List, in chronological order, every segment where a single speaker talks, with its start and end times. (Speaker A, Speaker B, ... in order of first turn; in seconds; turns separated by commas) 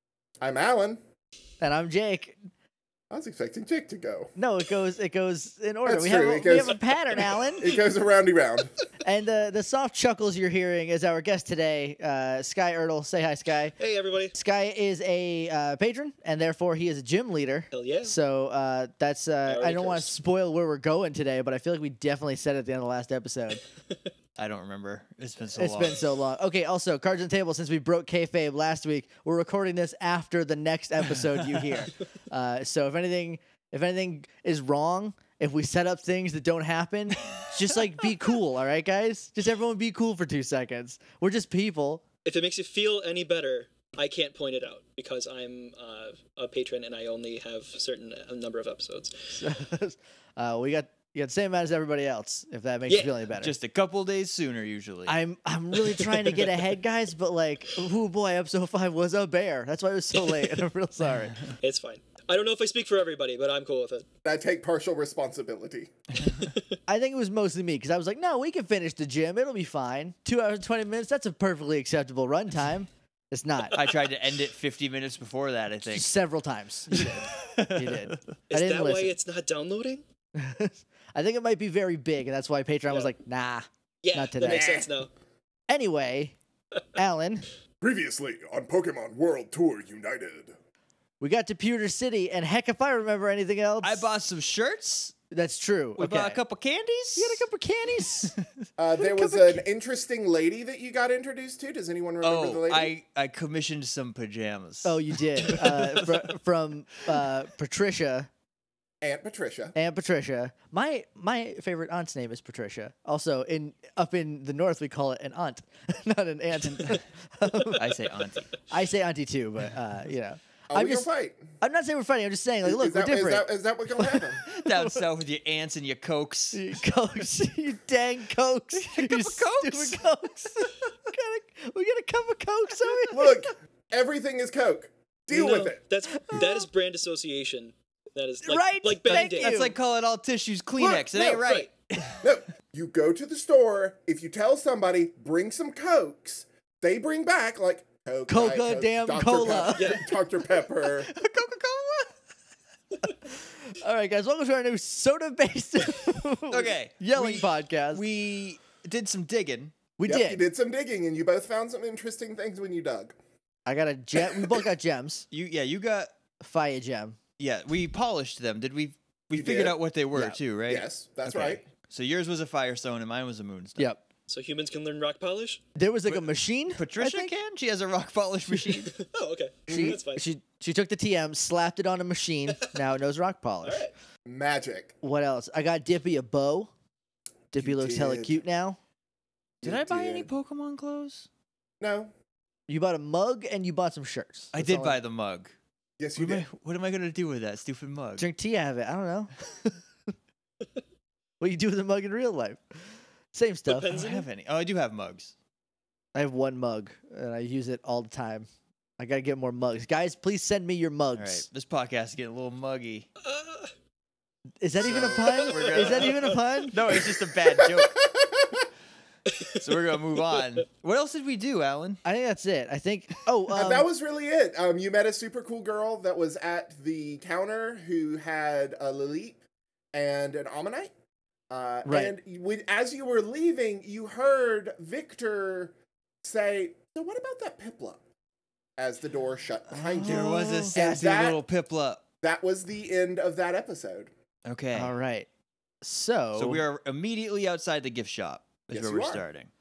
Speaker A: 0.4-1.0, Speaker B: 1.6-2.4, Speaker A: 3.1-4.3, Speaker B: 4.3-7.8, Speaker A: 5.8-8.8, Speaker B: 9.0-13.8, Speaker C: 13.8-14.3, Speaker B: 14.3-23.6, Speaker C: 17.7-18.2, Speaker C: 19.4-20.1, Speaker D: 24.4-26.0, Speaker B: 25.6-42.0, Speaker D: 31.4-31.7, Speaker C: 42.2-49.4, Speaker B: 49.3-53.5, Speaker C: 52.9-53.1, Speaker D: 53.4-55.1, Speaker B: 55.0-61.4, Speaker C: 60.1-60.5, Speaker C: 61.6-64.0, Speaker A: 64.2-65.9, Speaker C: 66.4-66.7, Speaker B: 66.9-73.8, Speaker D: 73.7-76.1, Speaker B: 75.8-79.2, Speaker D: 76.9-78.2, Speaker C: 78.5-80.0, Speaker B: 80.3-84.8, Speaker C: 84.0-85.1, Speaker A: 84.4-85.0, Speaker B: 85.7-86.3, Speaker B: 86.9-87.5, Speaker A: 87.8-90.5, Speaker B: 91.2-94.1, Speaker D: 93.8-95.2, Speaker B: 95.3-96.4, Speaker D: 96.0-97.5, Speaker B: 97.2-98.3, Speaker D: 98.0-98.6, Speaker A: 98.8-102.9, Speaker B: 99.0-99.6, Speaker D: 102.2-106.3, Speaker B: 104.8-108.3, Speaker A: 109.0-109.7, Speaker B: 109.7-117.9, Speaker D: 116.6-117.0, Speaker D: 117.6-118.5, Speaker B: 118.7-121.1, Speaker A: 120.7-121.5, Speaker B: 121.6-125.1, Speaker A: 122.6-124.4, Speaker D: 124.5-126.6, Speaker B: 126.5-133.5, Speaker D: 128.7-130.1, Speaker A: 133.1-135.8, Speaker C: 135.3-139.7, Speaker B: 136.3-136.6, Speaker B: 138.4-139.8, Speaker D: 139.1-142.3, Speaker A: 140.8-141.4, Speaker C: 141.3-141.7, Speaker A: 142.2-151.1, Speaker B: 148.3-150.1, Speaker C: 149.7-150.1, Speaker D: 151.0-152.1, Speaker B: 153.2-158.0, Speaker D: 156.5-159.7, Speaker B: 160.0-160.4, Speaker A: 160.1-163.2, Speaker B: 163.7-165.2, Speaker D: 165.3-166.1, Speaker B: 166.4-167.2, Speaker D: 167.4-173.9, Speaker A: 169.3-169.8, Speaker B: 170.1-170.4, Speaker A: 170.7-171.6, Speaker C: 174.3-175.6, Speaker B: 175.8-177.4, Speaker D: 176.1-178.9, Speaker C: 178.9-180.3, Speaker B: 179.7-183.8, Speaker A: 179.7-180.0, Speaker C: 183.6-183.9, Speaker A: 184.3-184.9, Speaker B: 185.0-186.7, Speaker B: 187.5-188.8, Speaker A: 187.5-188.3, Speaker A: 189.6-190.3, Speaker D: 189.6-191.3, Speaker A: 191.8-192.1, Speaker B: 192.7-195.0, Speaker D: 194.5-195.5, Speaker A: 196.0-196.4, Speaker D: 196.2-198.3, Speaker B: 198.2-199.8, Speaker B: 201.4-203.9, Speaker C: 203.7-204.2, Speaker D: 203.9-205.3, Speaker B: 206.1-208.5, Speaker B: 209.0-211.4, Speaker D: 211.2-213.1, Speaker C: 213.2-213.7, Speaker B: 214.6-217.0, Speaker D: 214.8-218.0, Speaker C: 215.5-216.4, Speaker A: 216.9-218.7, Speaker D: 219.5-222.0, Speaker B: 222.0-223.9, Speaker A: 223.5-229.4, Speaker A: 229.9-230.9, Speaker A: 231.5-238.0, Speaker B: 231.8-232.2, Speaker A: 238.8-241.4, Speaker B: 239.7-241.2, Speaker D: 239.9-242.0, Speaker A: 242.2-244.1, Speaker D: 244.4-244.9, Speaker B: 244.7-245.3, Speaker B: 245.8-246.6, Speaker D: 246.3-249.5, Speaker A: 248.7-249.2